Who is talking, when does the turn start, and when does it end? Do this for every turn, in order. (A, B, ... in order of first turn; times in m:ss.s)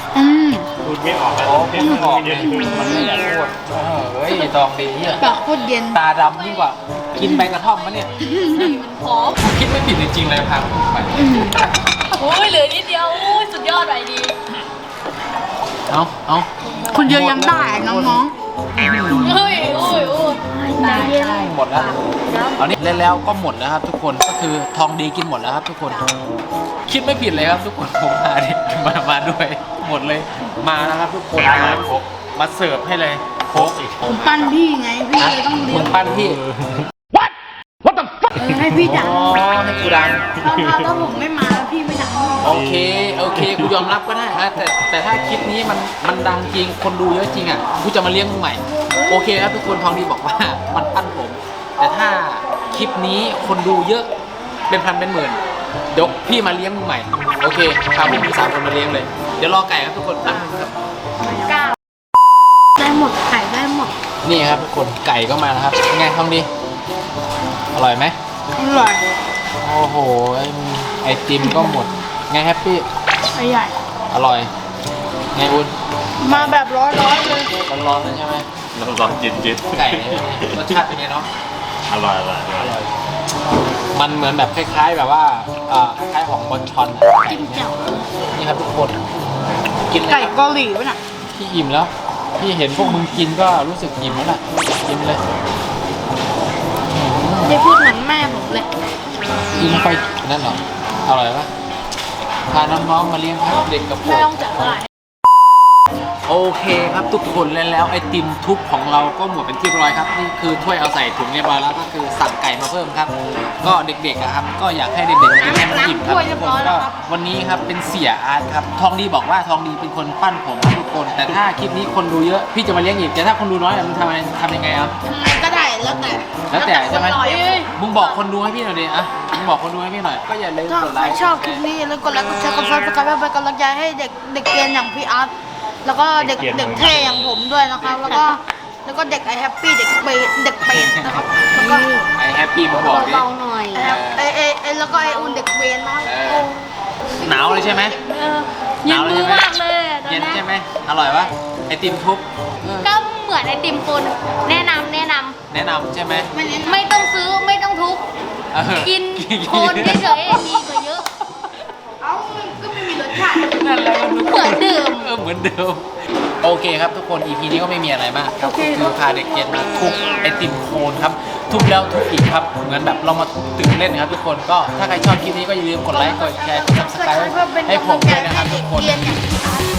0:00.1-0:00.7 A
0:00.8-0:03.4 B
0:01.4-0:05.2 C
0:01.8-0:03.1 A
0:05.2-0:06.0 A
0:05.9-0:08.1 C
0:06.2-0:06.7 D
0:07.2-0:07.5 A
0:08.2-0:08.8 A
0:08.5-0:09.4 D
0:09.4-0:11.2 C
0:11.2-0:11.6 A
0:12.1-0:14.4 D
0:15.9-0:16.5 C
0:16.7-0:17.2 D
0:16.9-0:18.3 A
0:17.0-0:18.2 C
0:18.8-0:20.0 C
0:19.2-0:22.5 D
0:20.6-0:21.2 A
0:20.8-0:21.9 C
0:22.6-0:26.0 C
0:26.9-0:34.3 C
0:31.4-0:31.9 B
0:33.5-0:34.2 B
0:34.0-0:36.0 A
0:35.2-0:36.4 C
0:36.6-0:36.8 B
0:38.4-0:39.2 A
0:38.8-0:40.3 C
0:40.4-0:40.9 B
0:40.4-0:42.5 A
0:42.4-0:54.1 C
0:42.4-0:43.8 B
0:54.7-0:55.4 C
0:55.9-1:00.7 C
1:00.3-1:00.5 A
1:01.3-1:01.6 A
1:02.8-1:03.9 A
1:04.2-1:06.5 C
1:07.7-1:08.2 C
1:08.6-1:09.0 A
1:09.6-1:12.9 C
1:11.4-1:11.8 A
1:13.4-1:13.8 A
1:14.1-1:14.5 C
1:15.3-1:15.7 C
1:16.2-1:17.5 A
1:16.2-1:16.6 C
1:17.6-1:18.5 C
1:18.8-1:20.8 B
1:19.7-1:21.3 C
1:21.9-1:22.8 B
1:22.5-1:22.9 C
1:23.9-1:27.7 C
1:27.2-1:28.0 A
1:28.3-1:29.0 C
1:29.9-1:30.4 C
1:30.0-1:31.0 A
1:31.3-1:35.2 C
1:36.9-1:37.7 C
1:37.5-1:38.3 D
1:37.7-1:38.6 A
1:39.6-1:41.5 C
1:42.5-1:44.8 C
1:44.0-1:44.8 D
1:46.3-2:04.9 C
1:55.3-1:56.9 A
2:05.1-2:07.6 A
2:06.5-2:07.2 C
2:06.6-2:08.2 D
2:07.8-2:11.6 C
2:10.7-2:15.3 A
2:15.8-2:22.0 A
2:16.2-2:17.3 B
2:17.8-2:18.3 C
2:20.6-2:21.3 C
2:21.5-2:22.0 D
2:22.2-2:24.3 C
2:22.8-2:23.8 D
2:23.7-2:26.5 A
2:24.9-2:25.5 D
2:26.0-2:26.5 C
2:27.2-2:28.0 C
2:27.3-2:30.4 D
2:28.8-2:29.5 C
2:30.0-2:32.9 C
2:32.8-2:35.4 D
2:35.5-2:36.3 C
2:36.3-2:36.9 A
2:36.6-2:38.0 D
2:38.5-2:40.4 C
2:38.8-2:41.1 D
2:42.0-2:44.3 A
2:42.6-2:45.9 C
2:44.2-2:45.1 D
2:46.4-2:59.0 C
2:48.4-2:49.0 A
2:55.9-2:59.6 A